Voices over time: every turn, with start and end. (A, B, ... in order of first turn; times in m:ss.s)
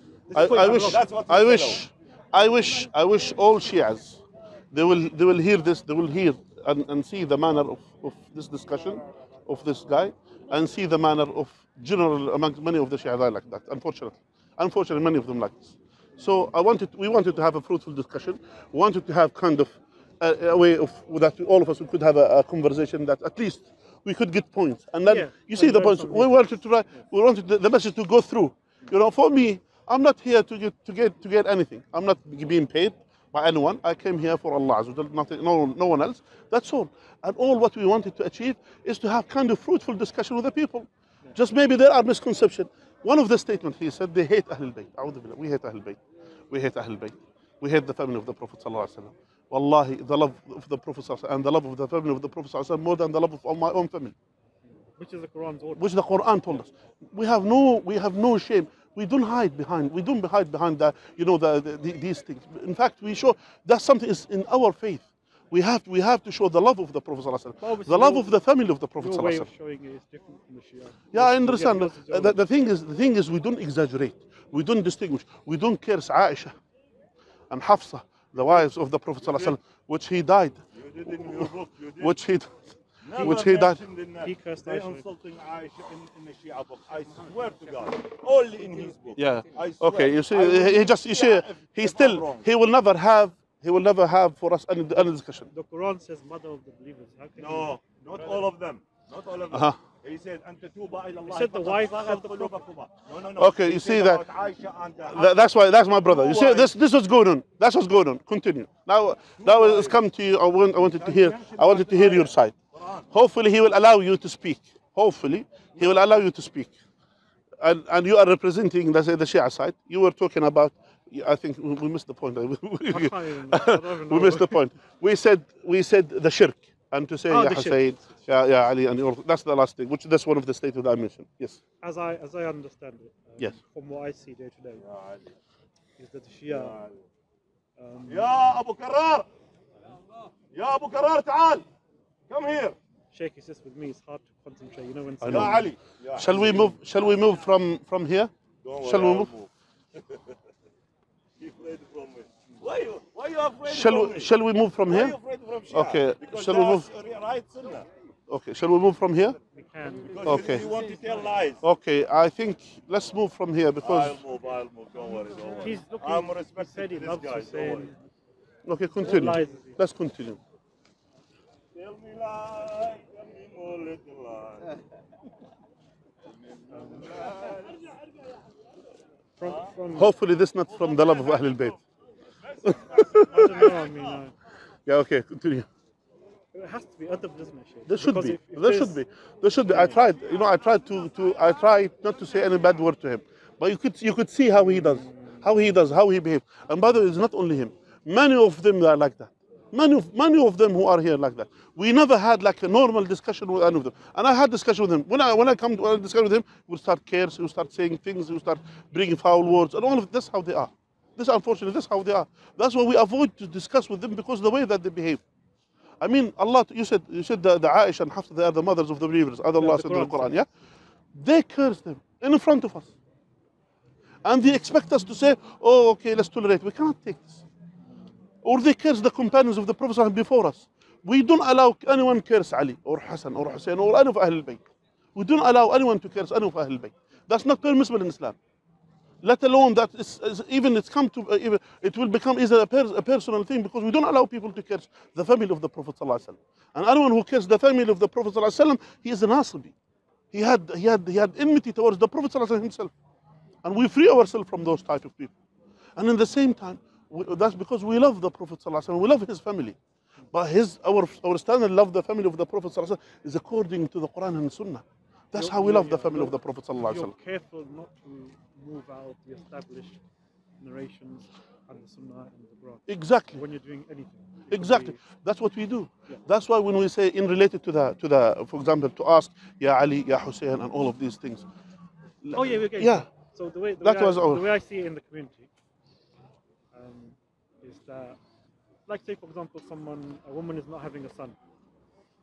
0:00.3-0:01.0 A
0:00.3-0:01.8 B
0:00.4-0:46.0 C
0:25.0-0:26.5 A
0:46.5-0:54.1 C
0:55.0-0:56.1 A
0:55.8-1:09.5 C
1:07.6-1:08.4 A
1:09.0-1:12.4 A
1:11.1-1:16.5 C
1:17.5-1:22.6 C
1:20.8-1:22.2 B
1:23.0-1:32.5 B
1:23.2-1:23.8 C
1:24.2-1:25.1 A
1:29.2-1:35.5 C
1:35.5-1:38.5 A
1:37.4-1:45.5 B
1:39.5-1:39.8 C
1:41.3-1:42.6 A
1:43.4-1:44.2 C
1:45.1-1:52.6 C
1:46.0-1:46.7 B
1:49.4-1:50.0 B
1:50.8-1:53.0 B
1:53.1-1:56.8 C
1:57.6-2:11.6 C
2:02.9-2:04.6 A
2:07.3-2:08.4 A
2:11.8-2:14.8 A
2:14.8-2:15.2 B
2:16.0-2:16.8 A
2:16.5-2:16.9 B
2:17.8-2:18.3 A
2:18.1-2:19.3 B
2:20.5-2:21.6 B
2:22.3-2:22.8 B
2:23.1-2:25.7 A
2:25.2-2:25.6 C
2:25.2-2:26.7 B
2:26.2-2:29.3 C
2:28.6-2:29.5 B
2:31.4-2:34.3 B
2:33.7-2:35.2 C
2:34.9-2:37.9 B
2:35.7-2:36.9 C
2:38.3-2:39.4 C
2:39.5-2:41.2 A
2:40.1-2:41.6 B
2:40.2-2:40.7 C
2:41.6-2:44.2 C
2:43.8-2:47.9 B
2:45.6-2:48.0 A
2:48.6-2:50.4 C
2:49.0-2:49.8 A
2:51.8-2:54.8 B
2:56.7-2:57.2 A
2:56.9-2:57.8 B
2:59.4-3:00.1 A
3:00.0-3:01.8 C
3:01.0-3:01.6 B
3:02.6-3:04.1 B
3:02.6-3:03.5 C
3:03.1-3:04.3 A
3:04.9-3:05.7 C
3:06.5-3:09.0 A
3:07.9-3:35.2 C
3:09.7-3:10.0 A
3:36.0-3:40.5 C
3:39.6-3:40.4 A
3:41.1-3:42.9 C
3:44.2-3:47.4 C
3:48.4-3:58.4 C
3:59.2-4:09.7 C
4:10.3-4:12.9 C
4:13.6-4:15.4 C
4:16.0-4:19.8 C
4:20.3-4:27.1 C
4:25.3-4:30.0 A
4:30.6-4:35.0 A
4:32.9-4:33.4 C
4:34.5-4:41.5 C
4:42.2-4:43.1 C
4:42.3-4:45.5 A
4:43.8-4:44.4 C
4:46.7-4:48.2 A
4:48.9-4:51.4 A